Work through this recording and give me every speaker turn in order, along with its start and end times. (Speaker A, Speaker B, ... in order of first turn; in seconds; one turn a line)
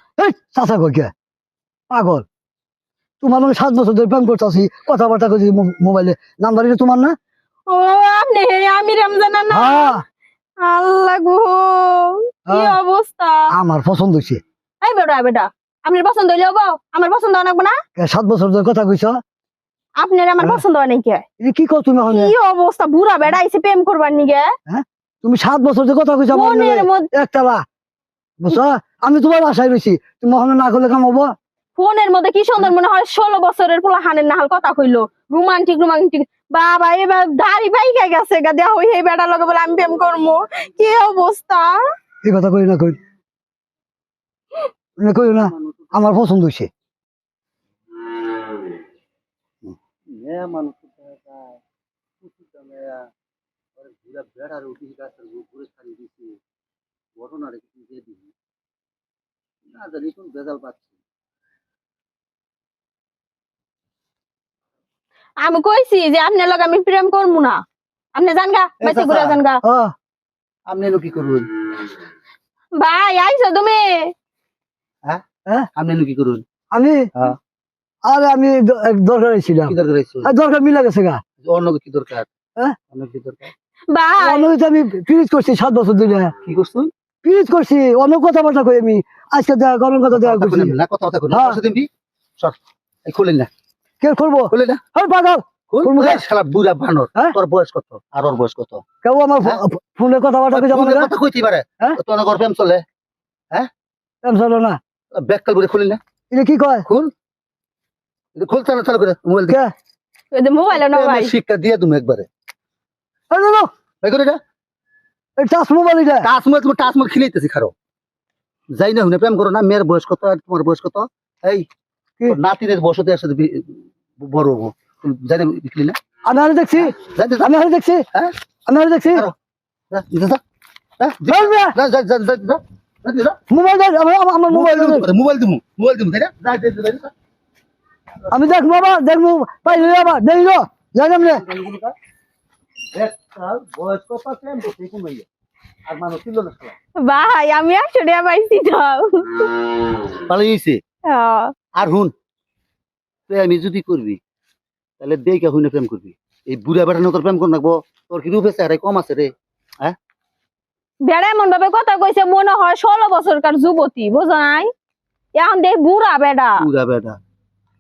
Speaker A: 0.2-1.1
Speaker A: 1.9-2.2
Speaker A: 3.2-7.1
Speaker B: 7.7-10.0
Speaker A: 9.5-10.0
Speaker B: 10.6-13.5
Speaker A: 12.5-12.8
Speaker A: 13.5-14.4
Speaker B: 14.8-17.8
Speaker A: 18.0-19.1
Speaker B: 20.0-21.2
Speaker A: 21.4-22.3
Speaker B: 22.1-24.5
Speaker A: 24.7-27.6
Speaker B: 26.3-27.1
Speaker A: 28.4-31.3
Speaker B: 31.8-41.8
Speaker A: 42.2-43.0
Speaker A: 45.0-46.7
Speaker C: 45.3-46.1
Speaker C: 50.1-51.6
Speaker C: 52.2-53.0
Speaker C: 53.8-56.4
Speaker C: 57.2-58.3
Speaker C: 59.7-60.8
Speaker B: 65.4-67.6
Speaker B: 68.1-69.6
Speaker C: 68.8-69.4
Speaker A: 69.6-69.9
Speaker C: 70.7-71.5
Speaker B: 72.8-74.1
Speaker C: 75.7-76.4
Speaker A: 76.7-77.1
Speaker A: 78.0-79.7
Speaker C: 79.7-80.3
Speaker A: 80.2-81.2
Speaker C: 81.4-82.3
Speaker C: 82.9-83.5
Speaker B: 83.9-84.5
Speaker A: 84.2-86.3
Speaker C: 86.5-86.9
Speaker A: 87.2-90.7
Speaker C: 90.1-91.9
Speaker A: 91.3-91.6
Speaker C: 92.4-93.5
Speaker A: 94.0-96.2
Speaker C: 94.5-94.8
Speaker C: 95.7-98.8
Speaker A: 99.0-101.1
Speaker C: 100.5-102.8
Speaker A: 104.2-104.8
Speaker C: 105.1-106.0
Speaker A: 106.3-106.8
Speaker C: 106.9-107.1
Speaker C: 108.3-109.6
Speaker B: 110.3-111.3
Speaker C: 110.7-112.3
Speaker A: 113.3-113.7
Speaker C: 114.0-114.4
Speaker A: 115.4-116.2
Speaker C: 116.2-117.7
Speaker C: 118.7-121.7
Speaker C: 122.3-126.0
Speaker A: 126.2-128.0
Speaker C: 126.9-127.5
Speaker A: 128.7-129.2
Speaker C: 129.9-130.4
Speaker C: 131.0-133.4
Speaker A: 131.3-131.7
Speaker A: 133.5-135.1
Speaker C: 134.5-137.1
Speaker A: 138.3-141.4
Speaker C: 141.3-141.9
Speaker C: 142.9-145.2
Speaker C: 145.9-146.7
Speaker B: 147.0-149.5
Speaker C: 150.3-150.8
Speaker B: 151.1-151.5
Speaker C: 151.8-152.1
Speaker C: 153.3-154.2
Speaker C: 155.0-159.9
Speaker B: 161.0-164.7
Speaker B: 165.3-166.6
Speaker C: 166.6-167.2